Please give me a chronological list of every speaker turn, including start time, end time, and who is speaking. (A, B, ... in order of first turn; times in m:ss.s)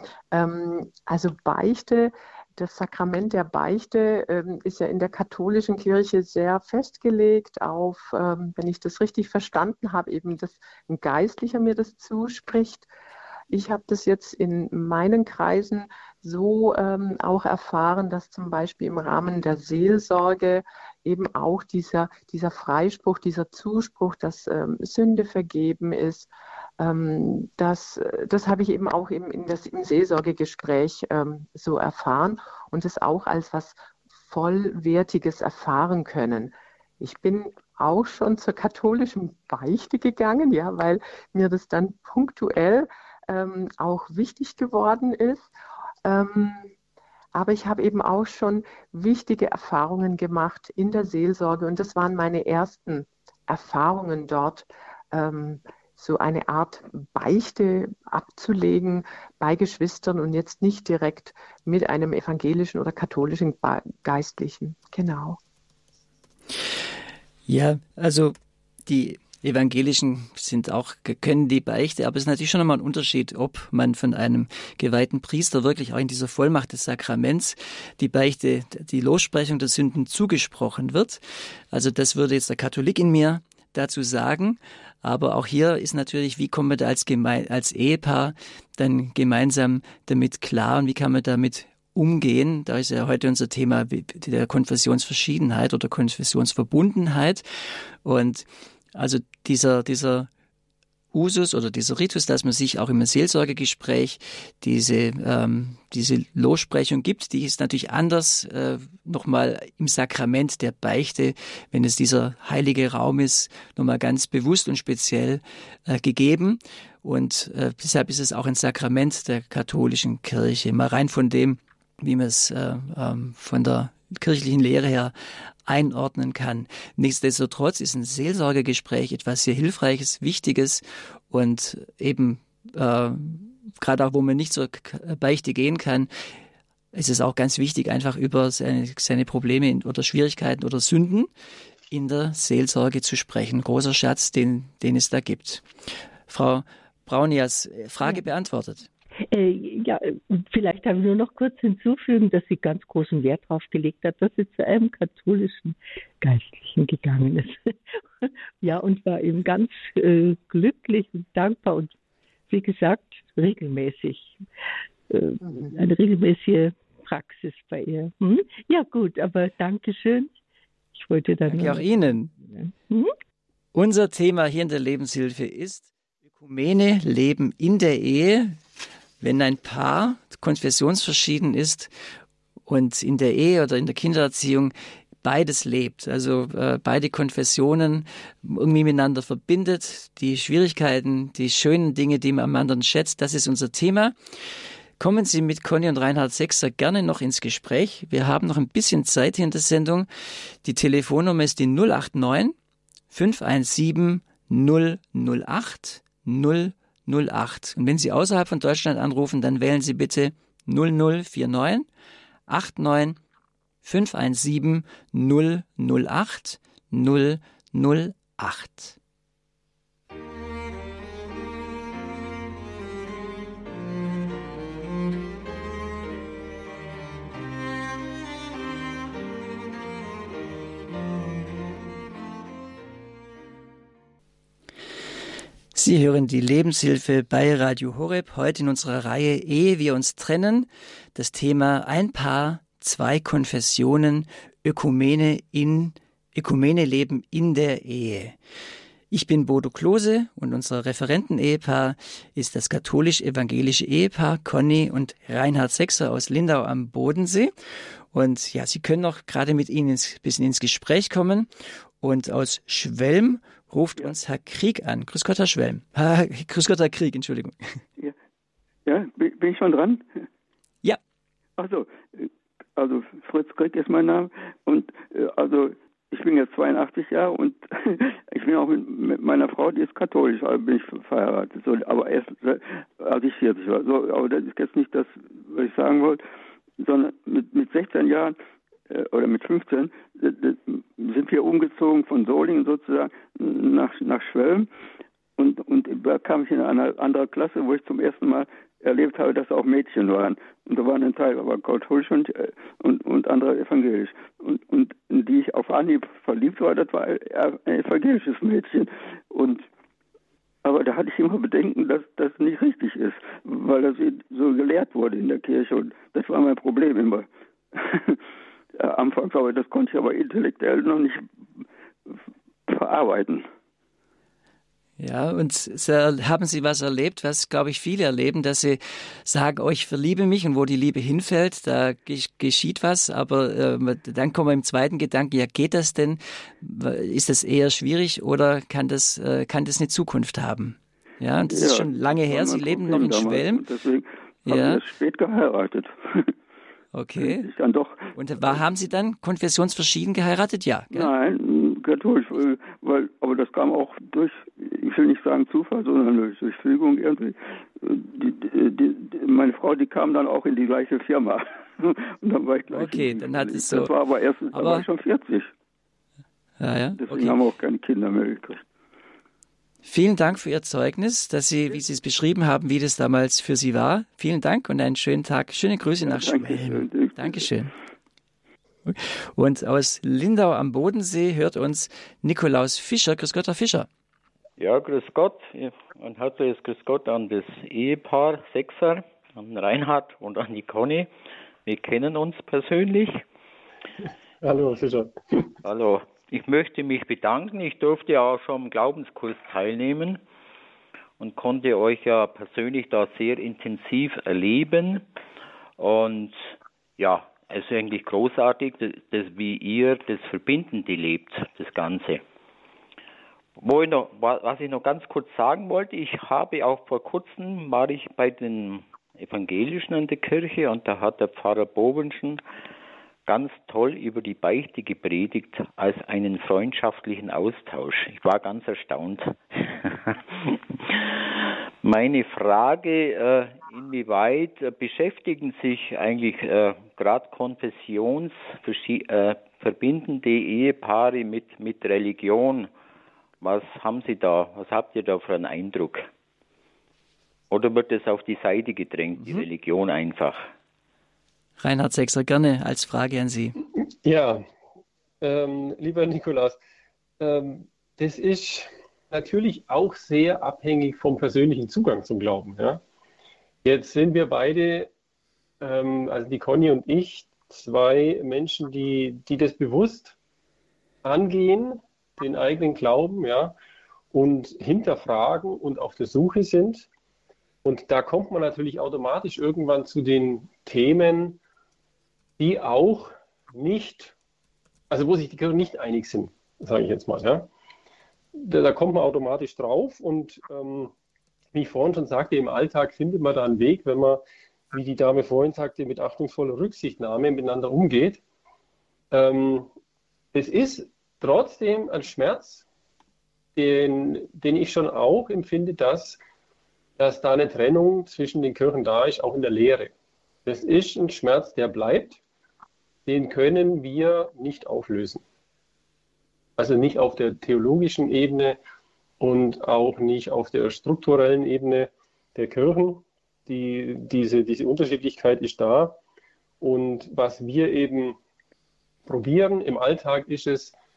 0:00.3-0:12.9 A
0:13.5-0:45.5 A
0:46.0-0:46.7 A
0:47.3-1:05.4 A
1:07.5-1:08.4 B
1:08.9-1:21.2 B
1:21.7-1:37.4 B
1:38.0-1:40.3 B
1:41.1-2:05.1 B
2:05.7-2:16.1 B
2:16.9-2:21.3 B
2:21.9-2:25.6 B
2:26.3-2:28.9 B
2:29.3-2:42.0 C
2:42.5-2:44.4 C
2:45.1-2:50.3 C
2:45.4-2:45.7 A
2:51.0-2:53.1 C
2:51.5-2:52.3 B
2:53.7-2:55.9 B
2:56.4-2:58.6 B
2:59.2-3:01.9 B
3:02.7-3:14.2 B
3:15.0-3:20.1 B
3:20.6-3:22.6 B
3:23.1-3:31.9 B
3:32.5-3:33.2 B
3:33.8-3:39.0 B
3:55.7-4:08.4 B
4:09.1-4:17.5 B
4:18.1-4:21.5 B
4:22.0-4:27.8 B
4:28.9-4:30.0 D
4:31.6-4:46.2 D
4:46.8-4:48.4 D
4:48.9-4:54.7 D
4:55.4-5:09.6 D
5:10.6-5:18.2 D
5:18.8-5:21.6 D
5:22.7-5:23.5 D
5:25.0-5:43.6 B
5:41.5-5:46.3 D
5:44.5-5:44.8 B
5:46.9-5:47.5 B
5:47.2-5:48.6 D
5:48.2-5:51.1 B
5:50.9-6:05.5 D
6:02.7-6:03.9 B
6:04.5-6:04.9 B
6:06.6-6:07.4 B
6:07.0-6:08.6 D
6:09.8-6:17.7 B
6:16.0-6:17.5 D
6:18.9-6:23.9 B
6:24.6-6:31.1 E
6:31.7-6:33.2 E
6:34.4-6:35.6 F
6:35.6-6:40.2 E
6:41.2-6:45.0 E
6:45.8-6:46.4 E
6:47.0-6:52.2 E
6:53.6-7:02.4 E
7:03.3-7:22.7 E
7:23.4-7:26.1 E
7:27.5-7:30.5 E
7:31.6-7:33.6 B
7:34.0-7:34.4 F
7:35.2-7:36.6 F
7:37.2-7:42.8 F
7:43.6-7:44.9 F
7:45.6-7:50.2 F
7:51.0-7:53.6 F
7:54.1-7:56.9 F
7:57.6-8:01.4 F
8:02.4-8:04.2 F
8:04.9-8:07.5 F
8:08.4-8:10.9 F
8:11.5-8:18.2 F
8:19.1-8:19.7 F
8:20.3-8:22.7 F
8:23.6-8:26.2 F
8:27.0-8:29.9 F
8:30.5-8:32.2 F
8:33.1-8:35.2 F
8:36.6-8:38.6 F
8:39.2-8:46.0 F
8:46.6-8:48.2 F
8:49.1-8:50.8 F